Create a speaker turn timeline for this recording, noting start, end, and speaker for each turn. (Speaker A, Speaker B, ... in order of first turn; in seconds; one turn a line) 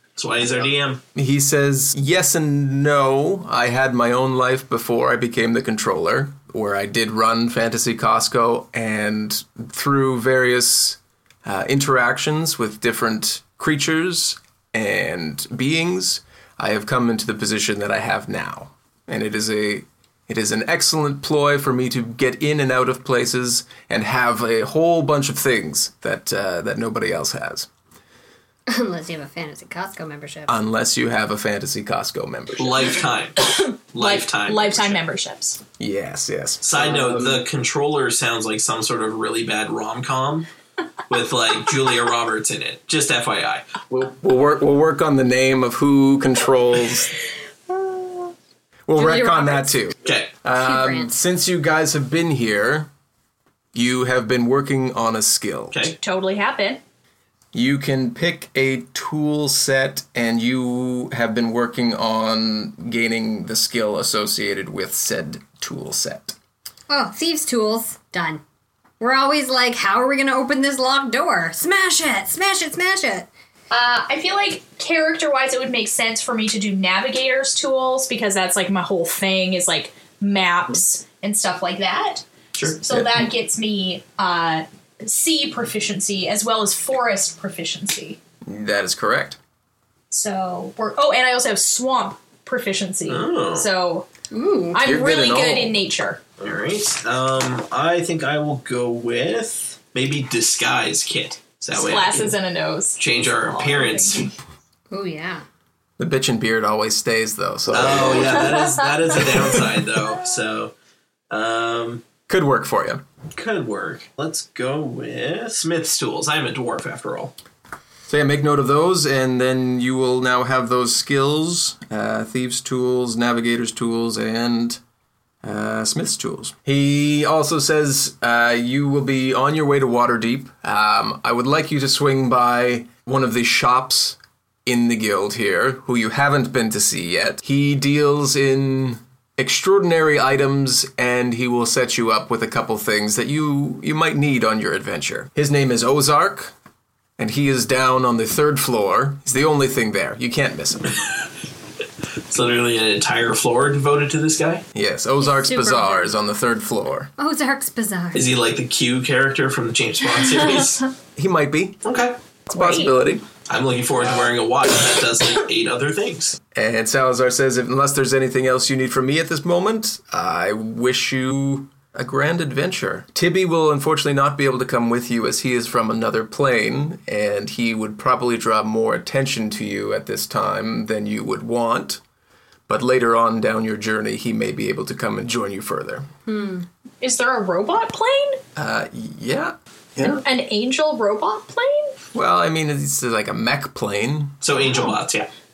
Speaker A: 0.2-1.0
Speaker B: 1.1-27.7
Speaker C: 28.7-30.6
Speaker B: 30.5-32.7
Speaker A: 32.6-35.0
Speaker D: 33.4-35.6
Speaker B: 35.8-37.4
Speaker A: 36.6-40.5
Speaker A: 41.1-43.8
Speaker B: 43.9-47.1
Speaker B: 48.9-52.9
Speaker C: 49.0-49.8
Speaker A: 50.0-50.3
Speaker C: 50.6-51.1
Speaker B: 53.7-55.9
Speaker D: 56.0-56.8
Speaker B: 57.5-66.4
Speaker C: 66.9-68.4
Speaker C: 69.0-73.3
Speaker D: 73.7-82.3
Speaker D: 82.8-88.2
Speaker B: 82.9-83.2
Speaker B: 88.4-89.4
Speaker D: 90.1-94.1
Speaker A: 93.1-93.7
Speaker C: 94.3-94.8
Speaker D: 94.7-96.2
Speaker B: 94.8-95.8
Speaker A: 96.4-102.4
Speaker D: 101.7-104.3
Speaker A: 103.0-104.3
Speaker C: 104.9-105.5
Speaker B: 106.0-108.5
Speaker A: 107.7-110.7
Speaker A: 111.3-112.0
Speaker B: 112.3-113.0
Speaker A: 113.3-117.3
Speaker B: 118.1-124.8
Speaker B: 125.4-146.5
Speaker B: 147.2-151.0
Speaker A: 152.3-154.6
Speaker B: 154.7-157.1
Speaker C: 155.2-156.1
Speaker C: 157.2-158.3
Speaker A: 158.2-160.8
Speaker B: 161.2-161.8
Speaker A: 161.8-162.2
Speaker D: 162.5-162.9
Speaker B: 162.5-163.3
Speaker A: 163.5-166.4
Speaker B: 166.5-182.0
Speaker B: 182.7-186.1
Speaker C: 186.3-186.7
Speaker D: 187.0-188.4
Speaker B: 188.6-190.2
Speaker D: 190.2-192.0
Speaker B: 192.1-194.4
Speaker A: 194.4-195.3